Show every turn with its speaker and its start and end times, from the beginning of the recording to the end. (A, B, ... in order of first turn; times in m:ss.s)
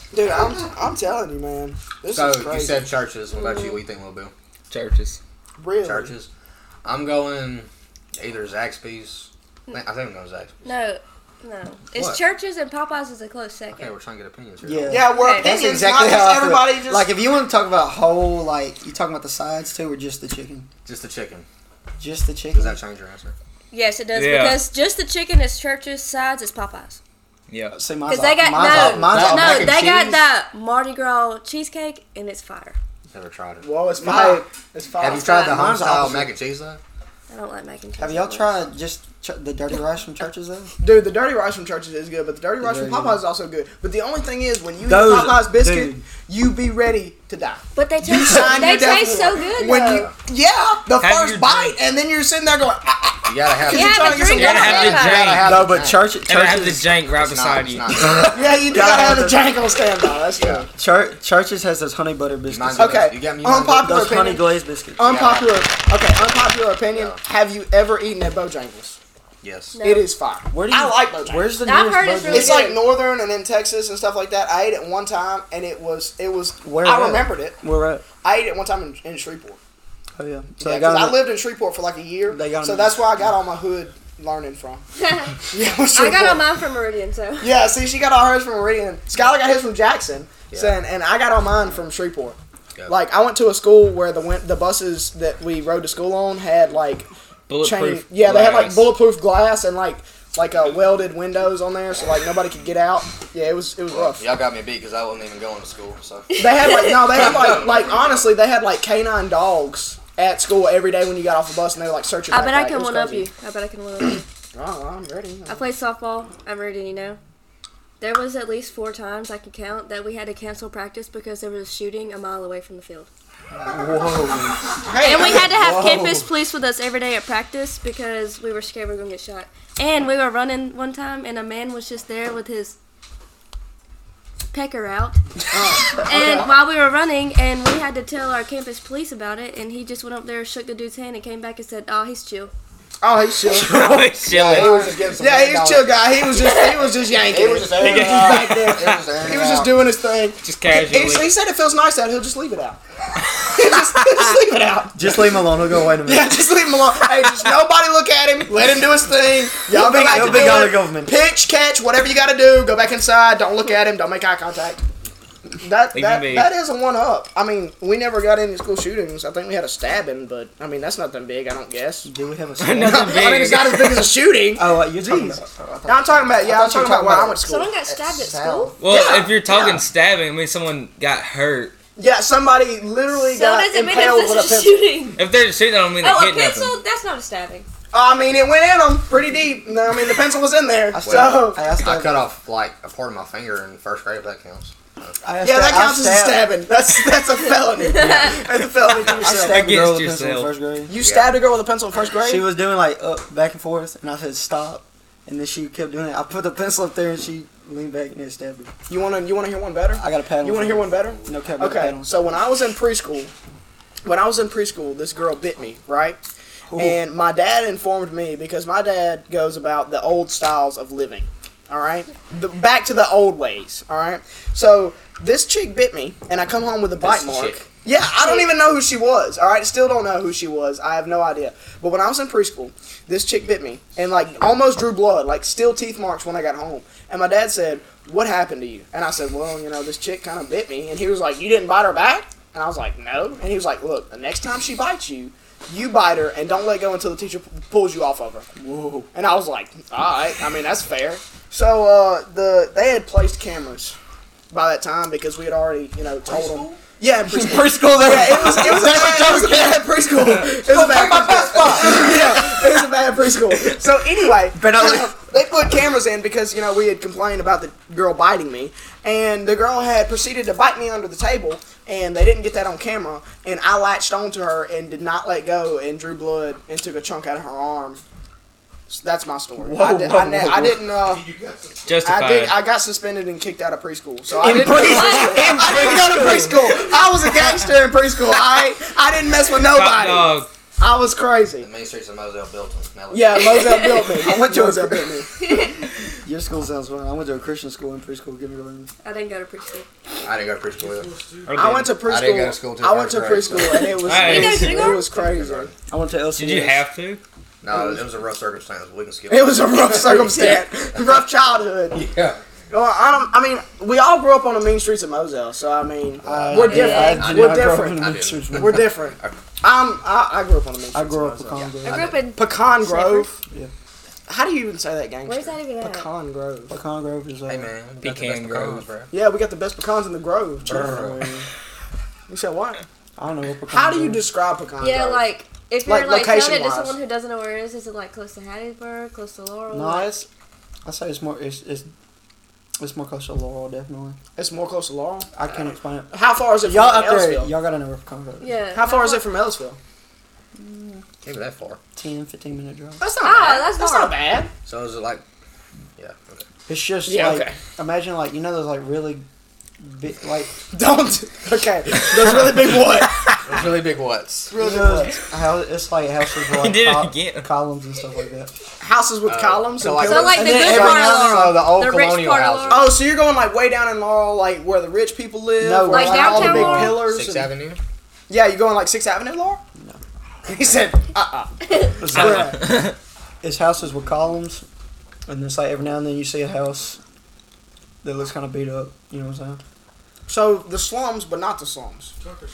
0:00.1-0:02.9 A
0:02.1-0:04.3 B
0:03.3-0:03.8 C
0:04.7-0:05.2 D
0:05.6-0:06.1 A
0:05.8-0:06.3 B
0:06.8-0:10.5 B
0:10.6-0:13.9 C
0:11.9-0:12.2 B
0:13.7-0:15.1 B
0:14.6-0:20.7 E
0:14.9-0:17.1 A
0:15.1-0:15.5 C
0:20.8-0:21.4 B
0:22.0-0:22.8 E
0:22.5-0:23.3 B
0:23.7-0:27.0 C
0:24.1-0:24.6 D
0:27.5-0:27.8 D
0:27.7-0:29.9 E
0:28.1-0:32.8 C
0:28.6-0:30.2 B
0:33.1-0:33.7 B
0:33.6-0:36.2 A
0:34.0-0:34.4 E
0:35.0-0:36.8 B
0:35.0-0:35.6 C
0:35.5-0:36.3 E
0:37.3-0:38.6 C
0:38.0-0:40.7 E
0:40.8-0:54.9 A
0:42.6-0:43.2 E
0:44.8-0:46.0 E
0:47.7-0:50.1 C
0:48.3-0:48.6 E
0:49.8-0:50.1 B
0:51.0-0:51.8 D
0:53.2-0:56.1 B
0:53.7-0:55.4 C
0:54.3-0:55.5 D
0:55.4-0:56.9 E
0:56.2-0:58.0 D
0:57.1-0:58.6 B
0:58.1-0:59.5 E
0:58.3-1:00.7 A
1:00.3-1:00.7 B
1:00.7-1:03.1 E
1:02.5-1:04.1 B
1:02.8-1:09.0 A
1:03.8-1:05.2 E
1:05.0-1:05.7 B
1:06.9-1:07.2 B
1:09.4-1:09.8 B
1:09.7-1:10.1 C
1:09.8-1:11.6 A
1:10.5-1:12.8 E
1:11.6-1:12.8 C
1:12.3-1:17.6 A
1:16.6-1:18.0 E
1:18.2-1:19.6 A
1:20.2-1:21.3 E
1:20.6-1:24.8 A
1:22.3-1:23.1 E
1:25.0-1:25.4 C
1:25.5-1:26.4 A
1:25.9-1:27.5 C
1:27.4-1:32.4 A
1:30.5-1:30.8 B
1:32.9-1:37.1 A
1:37.5-1:38.9 D
1:37.6-1:44.2 A
1:43.9-1:46.4 B
1:46.3-1:47.2 C
1:46.4-1:53.3 A
1:47.1-1:48.0 B
1:52.3-1:54.2 C
1:54.5-1:55.6 A
1:55.5-1:57.2 C
1:58.0-2:03.1 C
2:03.5-2:06.2 E
2:04.8-2:05.8 A
2:05.0-2:12.8 C
2:14.5-2:15.2 C
2:15.5-2:16.5 A
2:15.9-2:22.5 C
2:23.0-2:32.8 A
2:23.4-2:24.9 D
2:24.3-2:25.9 B
2:26.3-2:26.8 C
2:27.2-2:29.8 B
2:27.8-2:29.0 D
2:30.4-2:31.3 D
2:33.3-2:44.8 A
2:34.9-2:36.4 E
2:39.7-2:41.2 E
2:45.6-2:52.1 A
2:45.9-2:46.5 D
2:52.0-2:53.6 E
2:52.6-2:54.1 D
2:52.8-2:57.7 A
2:54.5-2:58.7 E
2:57.4-2:58.8 C
2:58.8-3:01.7 D
2:58.8-2:59.8 A
3:02.0-3:04.9 A
3:03.1-3:05.2 C
3:05.2-3:06.8 D
3:06.0-3:07.7 C
3:07.9-3:11.6 A
3:10.9-3:12.3 E
3:11.0-3:15.2 B
3:15.2-3:16.5 E
3:15.4-3:19.7 A
3:17.9-3:18.3 C
3:18.0-3:18.3 E
3:18.9-3:20.9 E
3:19.2-3:20.5 D
3:20.9-3:22.5 A
3:21.0-3:21.4 B
3:22.2-3:28.7 E
3:28.9-3:33.3 A
3:30.0-3:32.4 E
3:34.0-3:36.2 A
3:36.7-3:37.0 E
3:36.7-4:08.5 A
3:47.0-3:47.6 B
3:48.2-3:48.5 C
4:08.6-4:09.1 E
4:09.1-4:14.0 A
4:14.5-4:38.0 A
4:16.3-4:16.8 B
4:17.3-4:22.7 E
4:20.7-4:22.4 B
4:24.5-4:25.2 E
4:38.9-4:41.3 A
4:39.6-4:40.9 E
4:41.8-4:42.6 D
4:42.0-4:51.7 A
4:44.4-4:47.1 E
4:44.8-4:45.6 C
4:49.6-4:50.5 D
4:51.6-4:54.0 B
4:53.1-4:55.3 A
4:54.1-4:55.6 E
4:55.4-4:55.7 C
4:56.2-4:58.9 E
4:59.0-4:59.9 C
5:00.2-5:01.2 B
5:01.4-5:02.0 D
5:01.5-5:05.7 A
5:02.0-5:05.7 B
5:04.0-5:04.9 D
5:04.1-5:05.2 C
5:05.9-5:06.8 E
5:06.4-5:07.2 D
5:07.6-5:10.6 B
5:07.7-5:08.0 A
5:09.3-5:12.0 A
5:11.9-5:12.4 B
5:12.7-5:21.6 A
5:16.2-5:19.4 B
5:16.3-5:18.9 E
5:16.6-5:17.3 C
5:20.9-5:22.2 E
5:21.5-5:22.2 B
5:21.8-5:23.3 C
5:22.3-5:23.4 A
5:24.3-5:26.7 A
5:25.2-5:26.1 C
5:26.7-5:27.7 E
5:27.5-5:29.1 B
5:28.0-5:28.8 D
5:29.1-5:31.1 A
5:30.7-5:31.2 B
5:30.7-5:31.4 E
5:32.3-5:32.8 A
5:33.2-5:34.2 E
5:33.7-5:35.2 A
5:34.8-5:40.1 C
5:35.8-5:37.0 A
5:39.7-5:40.3 E
5:40.8-5:41.9 E
5:42.8-5:44.2 E
5:44.4-5:45.3 A
5:45.3-5:48.5 E
5:46.1-5:47.5 A
5:48.4-5:49.3 C
5:48.7-5:49.8 A
5:50.5-5:51.0 E
5:51.2-5:51.8 B
5:52.0-5:53.0 E
5:53.0-5:54.5 A
5:53.2-5:54.2 C
5:54.6-5:55.2 B
5:56.0-5:56.5 B
5:56.7-5:59.2 E
5:57.0-5:57.6 A
5:59.8-6:00.6 E
6:00.7-6:03.3 A
6:03.4-6:04.5 B
6:04.5-6:05.2 A
6:04.5-6:08.5 E
6:06.5-6:07.5 D
6:08.8-6:11.1 A
6:09.2-6:13.0 B
6:10.0-6:12.9 C
6:10.3-6:11.5 E
6:12.7-6:17.5 A
6:15.6-6:17.0 E
6:15.9-6:17.0 C
6:16.9-6:17.8 B
6:18.3-6:19.6 A
6:20.4-6:22.8 A
6:21.6-6:22.0 C
6:22.0-6:22.7 E
6:22.1-6:22.9 D
6:23.4-6:24.6 E
6:25.3-6:27.0 E
6:28.0-6:29.6 E
6:30.3-6:32.1 A